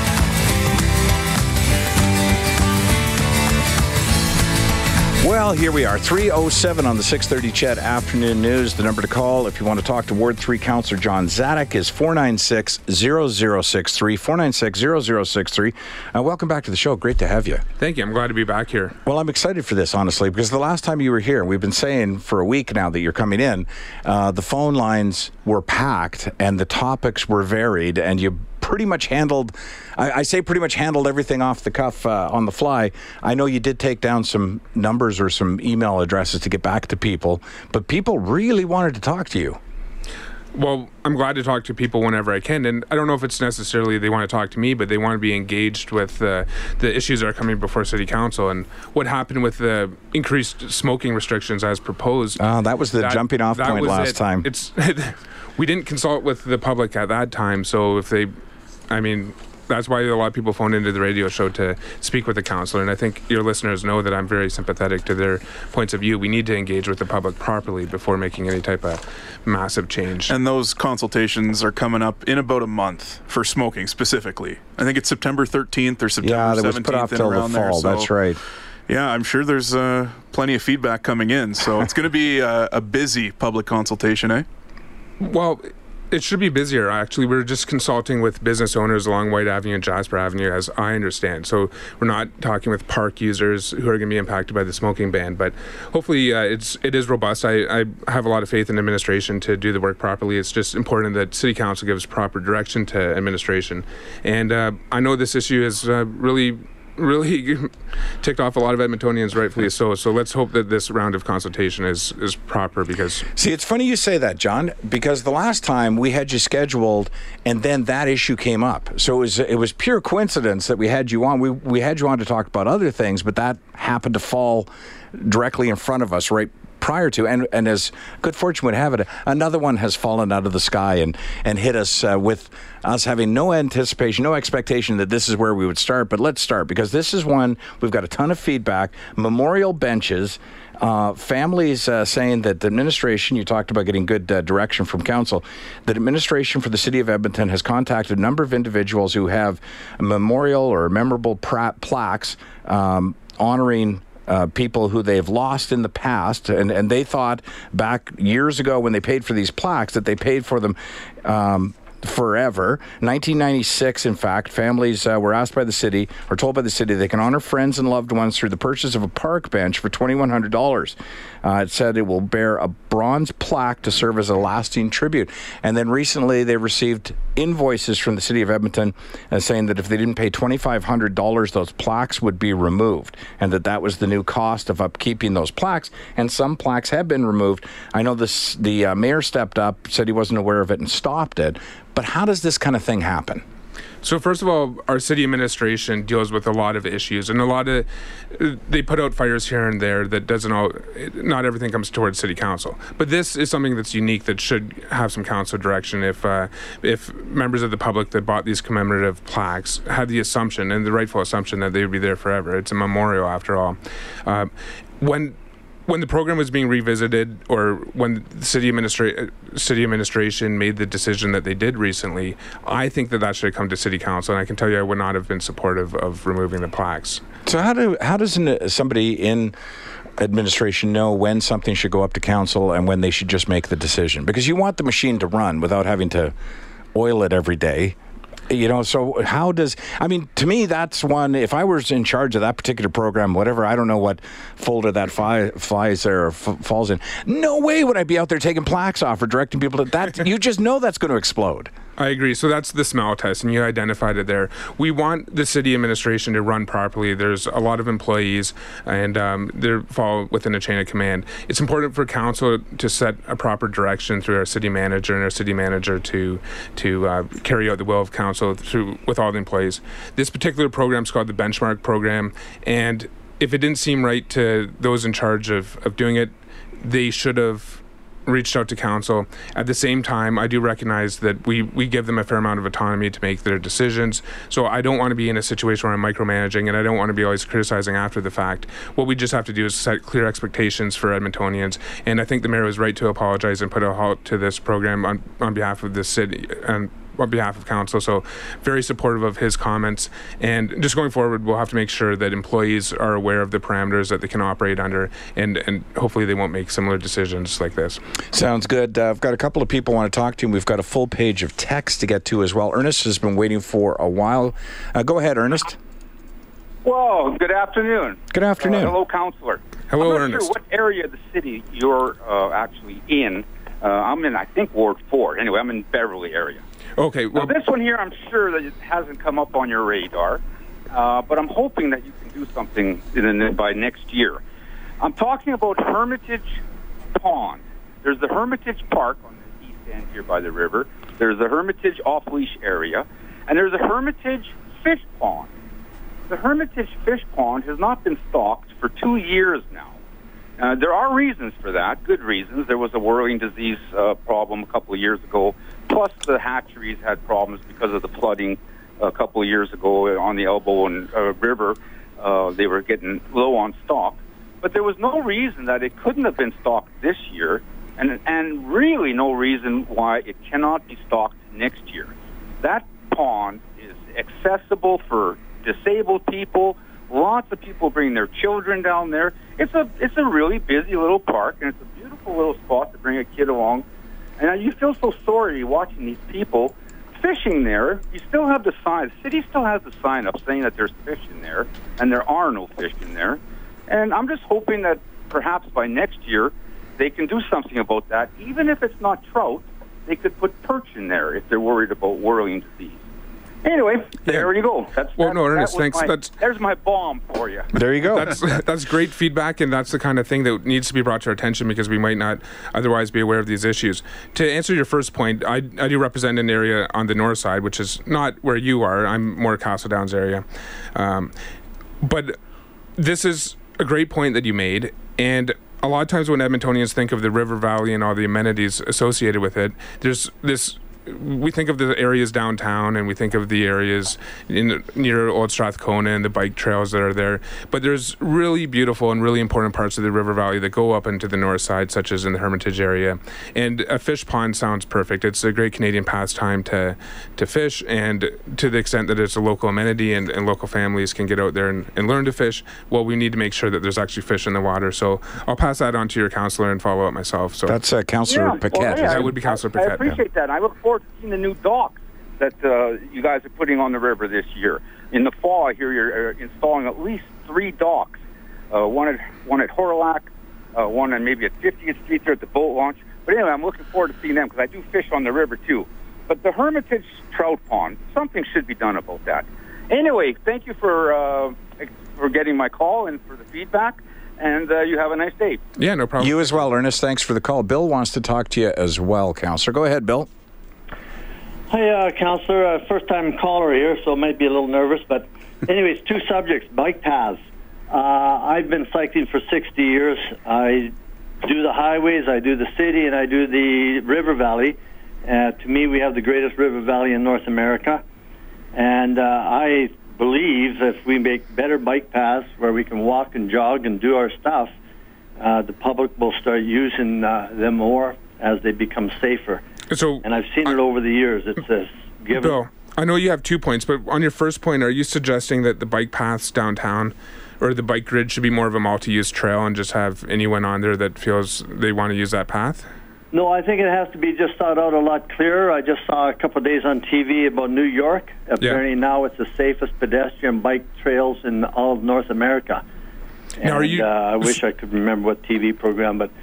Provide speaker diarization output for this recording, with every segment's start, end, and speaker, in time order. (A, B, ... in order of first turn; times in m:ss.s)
0:05.2-0:17.6 A
0:17.8-0:18.9 B
0:19.1-0:39.6 A
0:40.5-0:52.4 B
0:52.4-0:54.5 A
0:53.0-0:58.3 B
0:58.9-1:10.4 B
1:10.3-1:18.1 C
1:16.2-1:18.4 A
1:18.9-1:24.5 C
1:25.2-1:53.3 B
1:53.4-3:13.4 A
3:14.0-3:35.4 B
3:35.9-3:47.2 B
3:47.5-3:49.5 A
3:50.2-3:56.3 A
3:56.9-3:58.0 A
3:58.5-4:11.7 A
4:12.0-5:08.0 B
5:08.3-5:15.8 A
5:16.8-5:26.6 D
5:18.3-5:19.0 A
5:19.9-5:20.5 B
5:27.0-5:27.5 B
5:27.3-5:34.4 D
5:35.0-5:36.5 D
5:37.2-5:45.5 D
5:46.3-5:50.0 D
5:50.6-6:23.8 D
6:24.4-6:43.0 D
6:43.6-6:47.7 D
6:44.3-6:44.5 B
6:45.1-6:46.4 B
6:47.7-6:48.3 A
6:48.1-7:00.4 B
7:01.0-7:01.3 B
7:02.0-7:02.4 B
7:03.0-7:37.8 B
7:37.7-7:39.3 A
7:38.3-7:48.2 D
7:39.0-7:40.2 B
7:48.7-8:05.6 D
8:05.8-8:06.6 B
8:06.2-8:10.3 A
8:11.7-8:20.9 E
8:21.4-8:28.0 E
8:28.7-8:34.7 E
8:35.4-8:39.6 E
8:39.9-8:40.2 B
8:40.2-8:42.6 E
8:42.4-8:52.9 B
8:53.3-9:02.8 E
9:03.6-9:06.3 E
9:03.6-9:04.5 B